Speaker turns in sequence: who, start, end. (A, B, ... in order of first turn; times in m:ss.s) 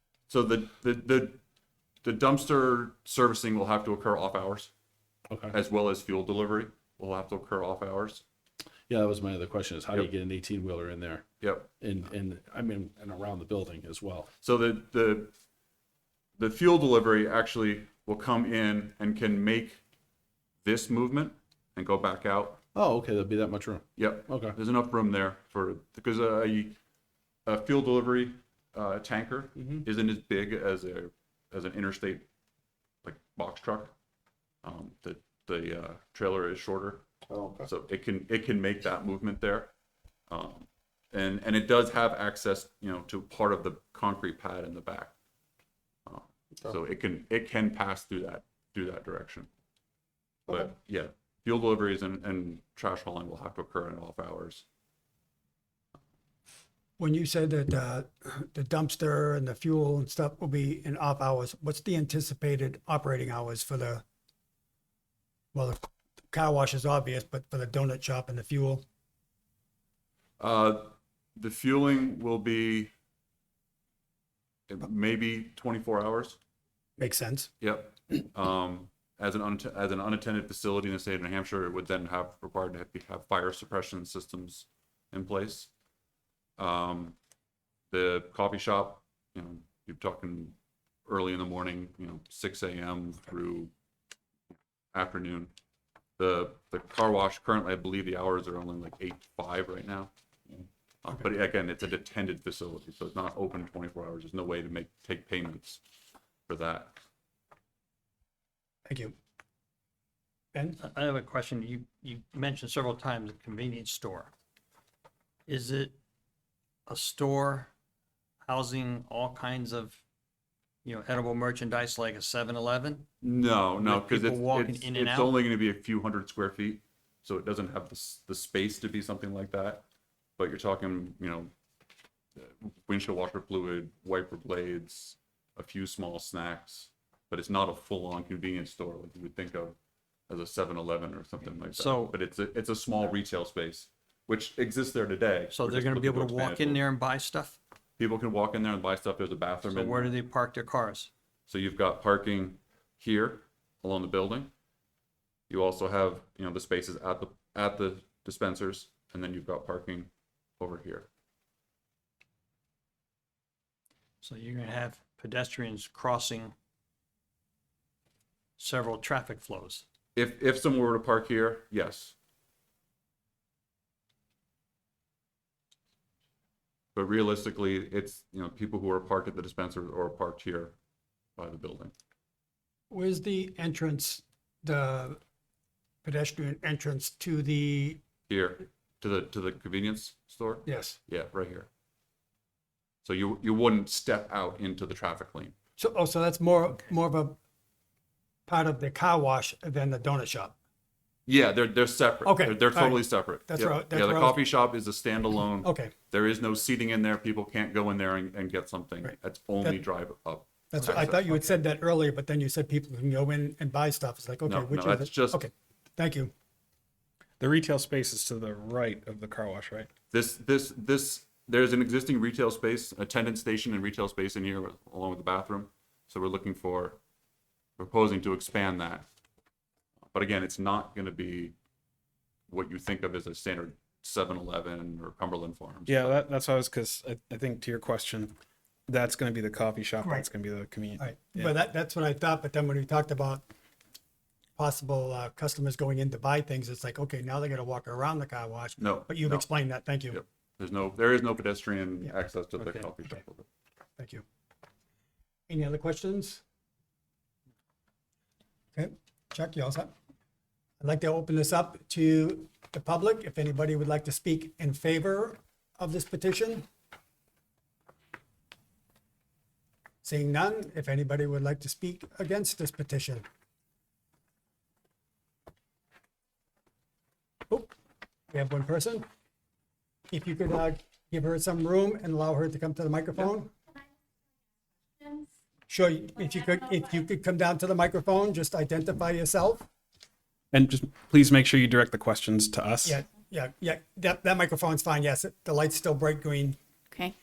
0:00.3-0:01.4 A
0:02.0-0:04.7 A
0:05.3-0:05.5 B
0:05.5-0:08.2 A
0:08.9-0:11.3 B
0:11.4-0:11.7 A
0:11.8-0:14.3 B
0:14.4-0:15.3 A
0:16.4-0:19.8 A
0:20.6-0:22.6 A
0:22.7-0:24.6 B
0:24.0-0:26.8 A
0:27.4-0:32.2 A
0:33.0-0:33.9 A
0:34.6-0:37.0 A
0:37.6-0:39.7 A
0:40.3-0:45.1 A
0:46.0-0:49.5 A
0:50.5-0:54.6 A
0:57.0-1:04.0 C
1:05.5-1:08.8 C
1:10.4-1:12.9 A
1:14.7-1:16.4 A
1:17.0-1:17.5 C
1:17.6-1:25.7 A
1:26.6-1:27.1 A
1:27.9-1:33.7 A
1:34.9-1:35.5 A
1:36.2-1:45.8 A
1:46.5-1:47.0 A
1:48.9-1:49.1 C
1:50.5-1:50.8 C
1:50.8-1:54.3 D
1:55.5-1:56.0 D
1:56.9-1:57.7 D
1:58.4-2:00.0 D
2:00.8-2:03.1 D
2:03.2-2:09.8 A
2:03.8-2:05.4 D
2:10.4-2:11.5 A
2:12.4-2:19.8 A
2:20.3-2:26.9 A
2:21.7-2:22.1 D
2:25.5-2:27.6 D
2:28.0-2:30.2 A
2:29.7-2:31.1 D
2:31.5-2:34.5 A
2:35.5-2:41.1 A
2:44.2-2:46.5 D
2:48.6-2:49.8 D
2:50.1-2:52.1 A
2:56.9-3:00.7 A
3:01.4-3:01.9 A
3:02.9-3:05.2 C
3:06.0-3:08.0 C
3:08.3-3:11.7 A
3:10.6-3:11.0 C
3:13.0-3:15.5 A
3:15.8-3:17.4 C
3:18.5-3:20.5 C
3:21.2-3:31.4 A
3:22.2-3:24.4 C
3:25.6-3:25.9 C
3:29.0-3:29.8 C
3:30.7-3:36.3 C
3:34.4-3:35.4 A
3:37.4-3:39.9 E
3:40.1-3:47.0 A
3:47.8-3:49.0 A
3:50.1-3:51.5 A
3:52.5-3:56.1 A
3:55.8-3:58.4 E
3:58.9-4:01.5 E
4:01.0-4:03.4 C
4:04.6-4:10.2 C
4:08.8-4:09.5 A
4:10.1-4:13.4 A
4:14.0-4:14.2 C
4:15.5-4:16.4 C
4:18.7-4:19.9 C
4:20.8-4:26.7 C
4:30.0-4:33.2 C
4:38.3-4:39.0 C
4:40.1-4:43.5 C
4:45.7-4:49.7 C
4:50.5-4:53.0 E
4:52.8-4:56.6 C